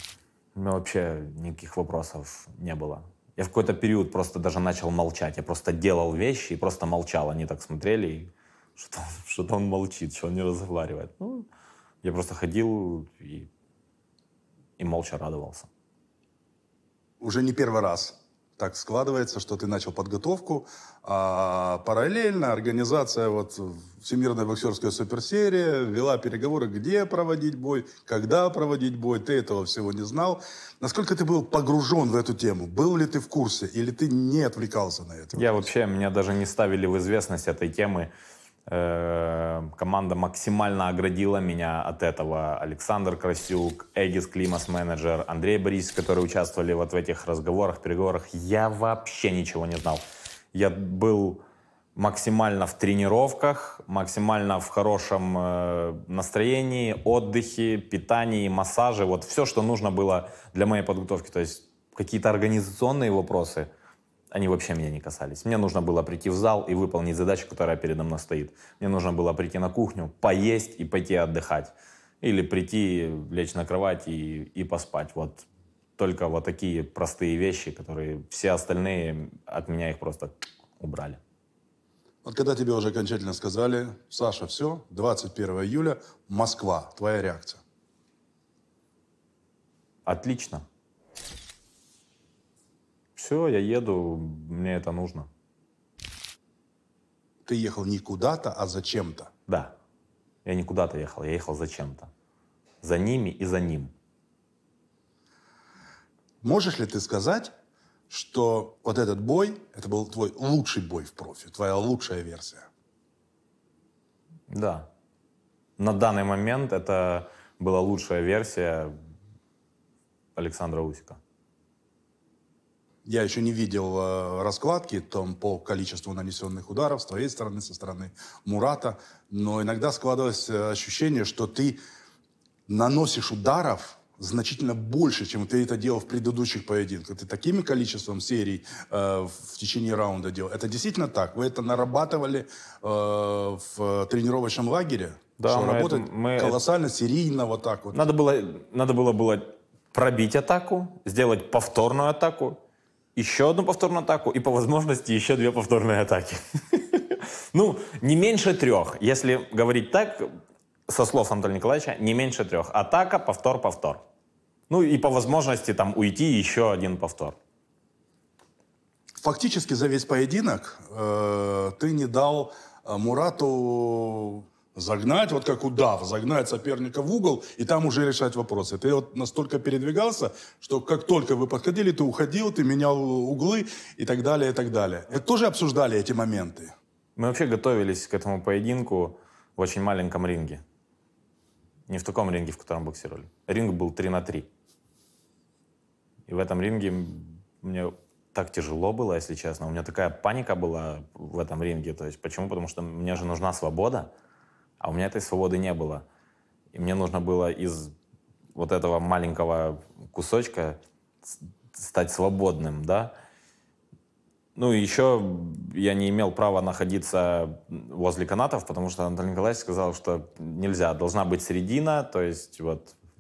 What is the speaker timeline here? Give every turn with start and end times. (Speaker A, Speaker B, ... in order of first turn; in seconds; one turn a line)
Speaker A: 0.6-11.5
Speaker A: 12.0-13.5
Speaker A: 14.8-15.7
Speaker B: 17.2-35.7
Speaker A: 35.4-38.1
Speaker A: 38.7-51.4
Speaker A: 52.0-63.7
Speaker A: 64.3-75.5
Speaker A: 76.0-81.2
Speaker B: 82.2-87.6
Speaker A: 90.1-90.7
Speaker A: 93.2-95.3
Speaker B: 97.5-99.3
Speaker A: 99.5-99.8
Speaker A: 100.5-102.1
Speaker A: 102.8-103.9
Speaker B: 106.4-107.5
Speaker B: 108.1-112.7
Speaker A: 114.5-114.9
Speaker A: 115.8-118.9
Speaker A: 120.4-121.2
Speaker B: 123.0-131.8
Speaker B: 132.7-148.1
Speaker A: 145.4-146.6
Speaker A: 147.9-152.6
Speaker A: 153.2-160.3
Speaker A: 160.9-164.0
Speaker A: 164.7-167.4
Speaker B: 169.2-186.7
Speaker A: 187.2-190.6
Speaker A: 191.9-194.5
Speaker A: 196.3-204.1
Speaker A: 204.8-206.1
Speaker A: 206.7-207.9
Speaker A: 208.6-213.1
Speaker A: 214.6-223.0